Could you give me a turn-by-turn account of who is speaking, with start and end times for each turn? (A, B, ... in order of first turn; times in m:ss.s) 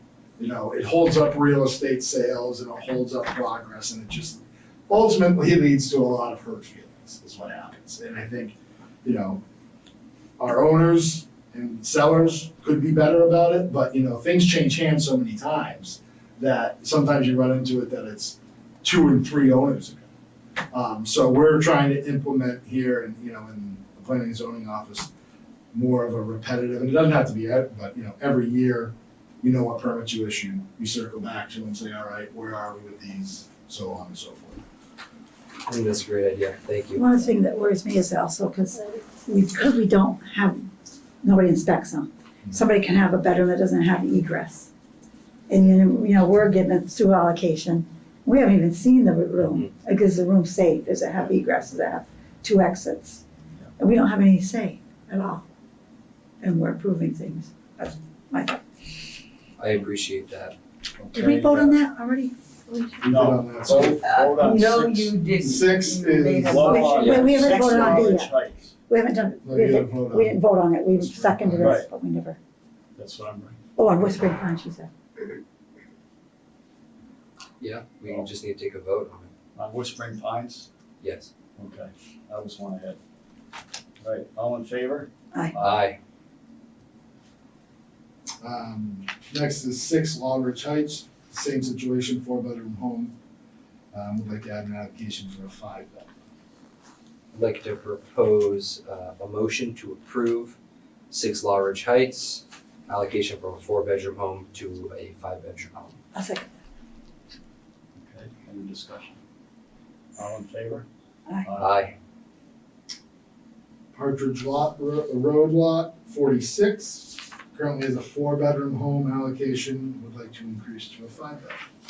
0:00.4-0:09.4 A
0:10.4-0:20.1 A
0:20.7-0:25.1 A
0:25.7-0:34.6 A
0:35.6-0:37.0 B
0:36.9-0:40.7 C
0:41.2-0:44.7 C
0:45.5-0:53.2 C
0:49.4-0:49.7 B
0:53.8-0:55.4 C
0:56.4-0:58.6 C
0:59.6-1:00.5 B
1:01.0-1:01.8 D
1:01.1-1:03.0 C
1:03.0-1:04.5 A
1:03.0-1:05.1 D
1:04.0-1:08.1 E
1:05.4-1:07.0 A
1:06.4-1:08.7 D
1:06.6-1:08.3 C
1:07.0-1:07.3 B
1:08.9-1:12.4 C
1:09.4-1:11.8 A
1:11.6-1:11.9 D
1:12.9-1:13.6 D
1:13.8-1:14.9 C
1:17.6-1:19.3 B
1:18.0-1:18.3 D
1:19.6-1:20.7 D
1:21.0-1:21.3 B
1:21.6-1:23.0 D
1:24.0-1:25.8 D
1:25.6-1:26.0 B
1:28.4-1:33.1 A
1:33.9-1:36.1 A
1:37.3-1:40.6 B
1:41.1-1:46.0 B
1:46.1-1:46.5 C
1:48.0-1:49.2 D
1:50.1-1:50.9 D
1:51.4-1:51.8 D
1:51.6-1:51.9 B
1:53.9-2:01.6 A